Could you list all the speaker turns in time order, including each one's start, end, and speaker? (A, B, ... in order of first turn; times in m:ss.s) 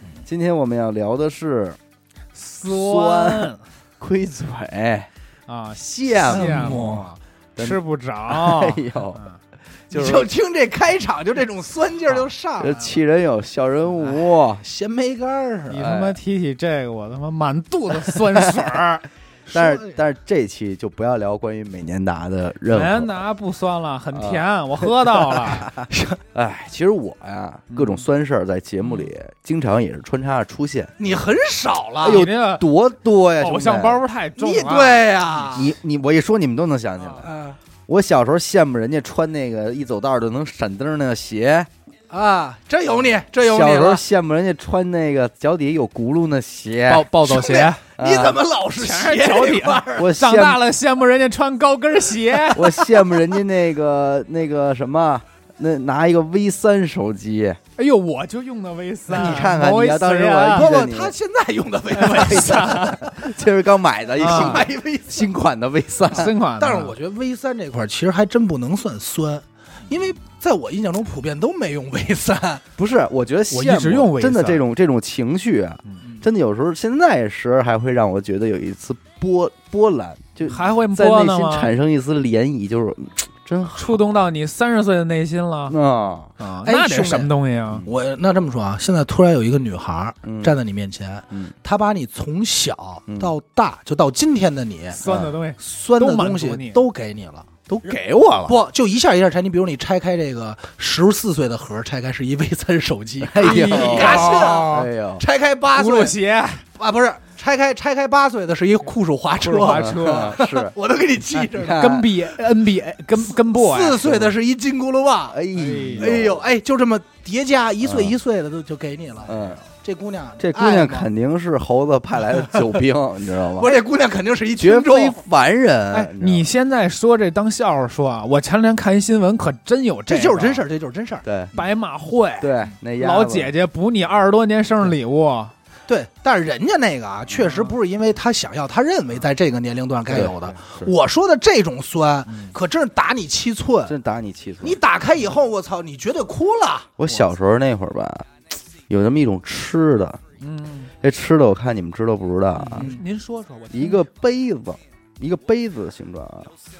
0:00.2-0:01.8 A
0:02.3-0:03.6 B
0:02.6-0:05.1 A
0:05.5-0:09.4 B
0:05.8-0:06.8 A
0:06.3-0:07.1 C
0:07.6-0:09.2 A
0:09.9-0:10.3 A
0:09.9-0:13.0 C
0:12.6-0:14.6 A
0:14.6-0:15.9 C
0:15.7-0:19.0 B
0:15.8-0:16.2 A
0:18.3-0:18.8 A
0:19.5-0:20.0 C
0:19.5-0:23.2 A
0:22.7-0:25.7 B
0:24.1-0:30.9 A
0:27.7-0:28.0 B
0:31.0-0:32.2 C
0:32.0-0:34.0 A
0:32.1-0:32.6 B
0:33.4-0:35.4 B
0:34.4-0:35.7 C
0:35.5-0:37.3 A
0:37.2-0:37.6 C
0:37.9-0:41.7 A
0:42.1-0:44.0 C
0:43.4-0:47.1 A
0:46.9-0:47.8 B
0:47.2-0:50.1 C
0:48.0-0:48.4 A
0:48.8-0:53.0 B
0:50.0-0:50.6 A
0:52.5-0:57.6 A
0:57.8-1:00.7 B
0:59.1-1:01.1 A
1:00.5-1:03.2 C
1:01.9-1:03.0 B
1:02.0-1:06.3 A
1:04.2-1:04.6 B
1:04.2-1:05.2 C
1:06.1-1:06.9 B
1:06.6-1:12.6 C
1:12.8-1:24.0 A
1:13.5-1:14.6 B
1:20.5-1:21.7 B
1:23.8-1:25.8 B
1:25.7-1:26.3 A
1:26.4-1:27.8 B
1:26.6-1:27.3 C
1:27.8-1:35.0 C
1:30.2-1:30.5 A
1:34.9-1:36.8 B
1:35.0-1:35.3 A
1:35.6-1:37.7 C
1:37.7-1:38.6 A
1:38.4-1:46.2 C
1:43.2-1:45.2 A
1:43.4-1:44.9 B
1:45.7-1:46.6 B
1:46.8-1:51.8 C
1:49.4-1:50.4 B
1:49.7-1:50.7 A
1:51.3-1:54.0 B
1:51.5-1:52.2 A
1:53.3-1:55.4 C
1:54.0-1:54.3 A
1:55.3-1:56.4 A
1:55.5-1:56.2 B
1:56.0-2:01.1 C
1:57.8-1:58.1 A
1:59.3-1:59.6 A
2:00.4-2:03.8 A
2:02.5-2:02.8 C
2:03.5-2:05.2 C
2:04.6-2:06.5 A
2:06.1-2:10.6 B
2:10.1-2:11.2 C
2:11.2-2:11.5 A
2:11.5-2:15.5 B
2:12.4-2:13.5 A
2:15.9-2:23.9 C
2:20.1-2:20.9 A
2:23.8-2:24.8 A
2:24.6-2:27.2 C
2:27.0-2:28.3 A
2:28.9-2:30.2 A
2:30.4-2:30.9 B
2:31.0-2:32.9 A
2:32.6-2:34.0 B
2:32.7-2:33.0 C
2:33.7-2:36.5 A